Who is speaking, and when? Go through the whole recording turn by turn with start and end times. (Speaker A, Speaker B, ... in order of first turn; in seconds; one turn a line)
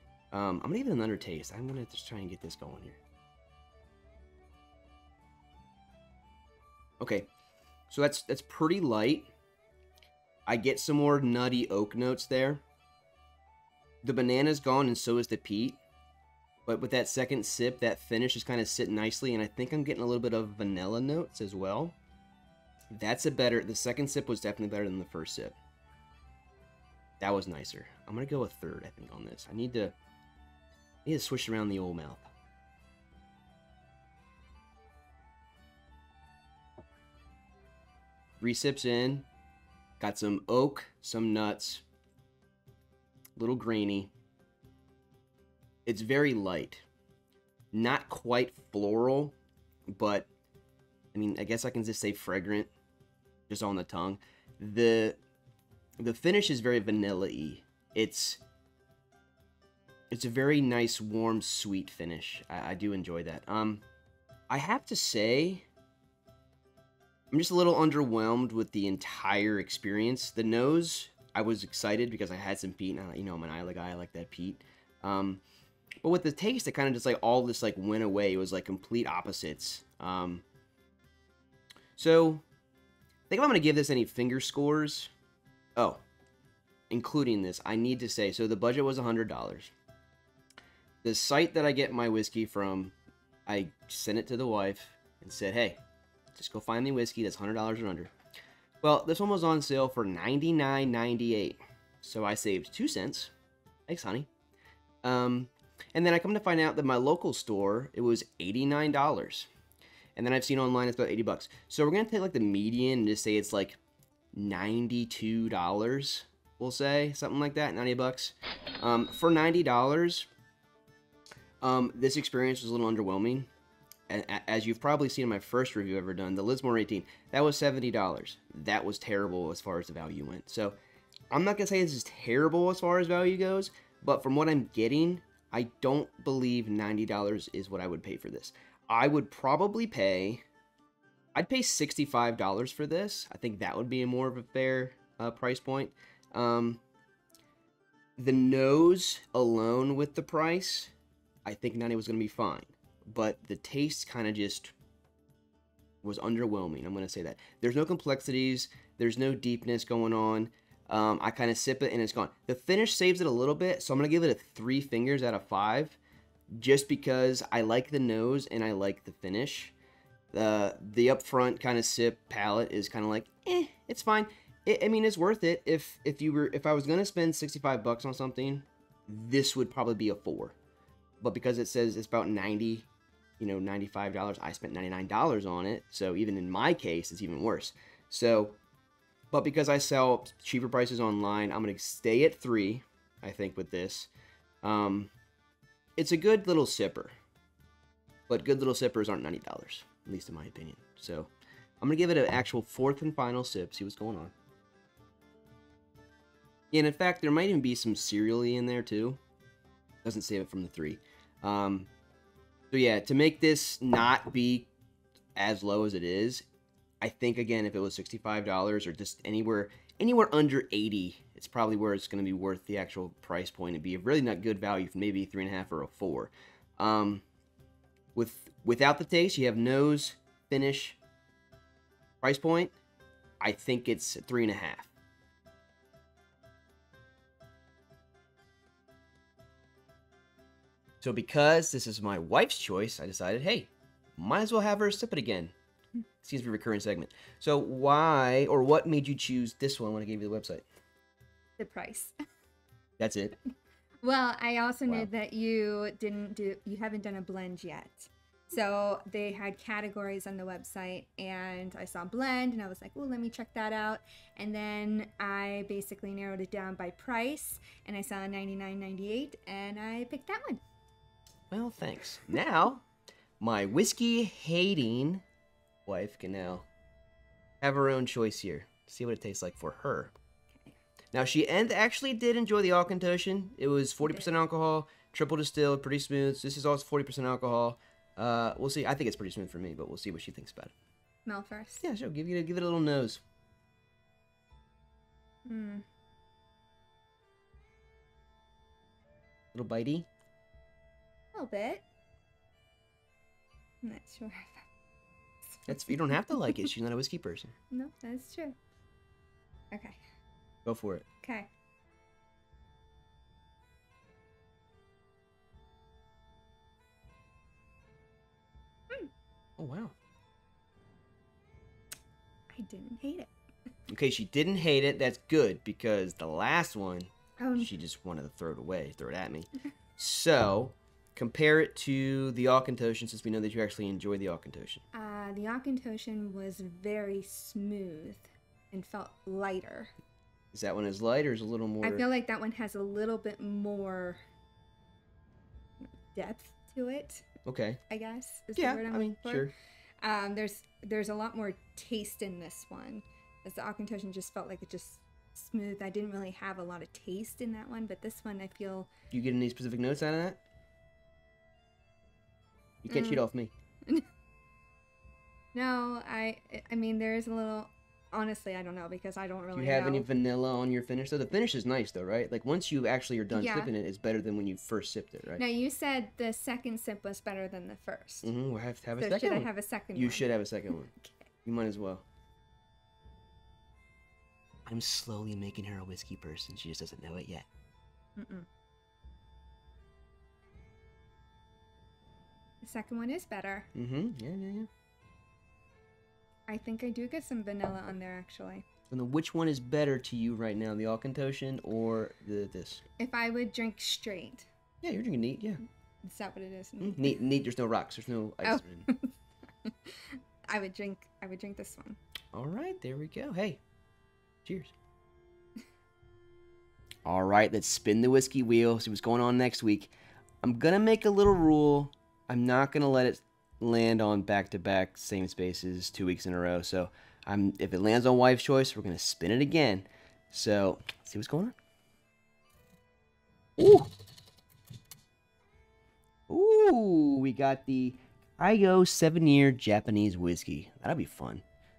Speaker A: 0.3-3.0
Speaker A: 7.0-7.3
Speaker A: 7.9-9.3
Speaker A: 10.5-12.6
Speaker A: 14.0-15.8
Speaker A: 16.6-21.9
Speaker A: 22.9-25.6
Speaker A: 27.2-29.9
Speaker A: 31.0-32.3
Speaker A: 38.4-39.2
Speaker A: 40.0-41.8
Speaker A: 43.4-44.1
Speaker A: 45.9-46.8
Speaker A: 47.7-49.4
Speaker A: 49.9-50.3
Speaker A: 51.1-52.7
Speaker A: 53.5-55.2
Speaker A: 56.0-58.4
Speaker A: 60.1-63.8
Speaker A: 64.5-65.7
Speaker A: 67.3-75.4
Speaker A: 76.0-80.4
Speaker A: 82.0-82.4
Speaker A: 83.3-85.1
Speaker A: 85.8-86.0
Speaker A: 86.9-89.7
Speaker A: 91.0-92.9
Speaker A: 93.5-95.8
Speaker A: 96.3-98.1
Speaker A: 98.8-103.3
Speaker A: 103.9-104.3
Speaker A: 105.0-109.5
Speaker A: 110.2-113.8
Speaker A: 114.3-120.3
Speaker A: 121.6-123.5
Speaker A: 124.1-130.8
Speaker A: 131.3-140.4
Speaker A: 141.3-146.8
Speaker A: 148.2-150.9
Speaker A: 151.4-154.7
Speaker A: 156.0-166.0
Speaker A: 166.5-169.7
Speaker A: 170.3-180.6
Speaker A: 181.2-182.9
Speaker A: 183.4-188.6
Speaker A: 189.3-194.1
Speaker A: 194.6-195.1
Speaker A: 196.0-197.1
Speaker A: 198.3-204.3
Speaker A: 206.7-209.2
Speaker A: 210.0-211.9
Speaker A: 212.7-214.7
Speaker A: 215.3-216.4
Speaker A: 217.0-227.2
Speaker A: 228.1-231.0
Speaker A: 232.2-232.8
Speaker A: 233.4-234.9
Speaker A: 241.0-245.5
Speaker A: 246.2-250.6
Speaker B: 251.6-252.1
Speaker A: 253.0-253.3
Speaker B: 254.0-270.6
Speaker A: 271.5-272.8
Speaker A: 273.4-275.2
Speaker A: 275.9-276.7
Speaker A: 277.6-280.1
Speaker A: 281.1-290.7
Speaker B: 284.0-284.3
Speaker B: 291.2-291.8
Speaker A: 291.8-293.2
Speaker B: 295.4-295.8
Speaker A: 299.5-300.1
Speaker B: 301.3-301.8
Speaker B: 303.8-304.7
Speaker B: 305.4-306.7
Speaker A: 305.7-307.5
Speaker B: 307.7-308.6
Speaker B: 309.7-310.0
Speaker A: 310.6-311.0
Speaker B: 311.2-311.5
Speaker A: 319.6-319.9
Speaker B: 322.5-323.3
Speaker A: 323.9-334.8
Speaker B: 327.4-327.7
Speaker B: 334.9-339.9
Speaker A: 340.5-342.1
Speaker B: 341.8-344.2
Speaker B: 345.8-347.3
Speaker A: 347.4-347.8
Speaker B: 347.9-358.9
Speaker A: 348.6-349.5
Speaker A: 359.1-360.4
Speaker A: 362.8-363.5
Speaker B: 362.9-363.2
Speaker B: 365.5-370.1
Speaker A: 369.5-375.4
Speaker B: 373.3-373.7
Speaker B: 375.4-378.3
Speaker A: 378.2-380.9
Speaker B: 379.0-381.2
Speaker A: 381.4-382.1
Speaker A: 384.7-387.5
Speaker B: 388.2-388.5
Speaker B: 392.6-393.7
Speaker A: 393.7-394.7
Speaker B: 396.5-398.6
Speaker A: 398.9-402.8
Speaker B: 403.0-404.5
Speaker A: 404.8-405.6
Speaker B: 406.0-407.2
Speaker A: 406.8-408.9
Speaker B: 408.4-409.1
Speaker B: 409.6-412.0
Speaker A: 412.3-413.6
Speaker A: 414.4-414.7
Speaker A: 417.0-431.6
Speaker A: 433.6-433.9
Speaker A: 436.3-441.4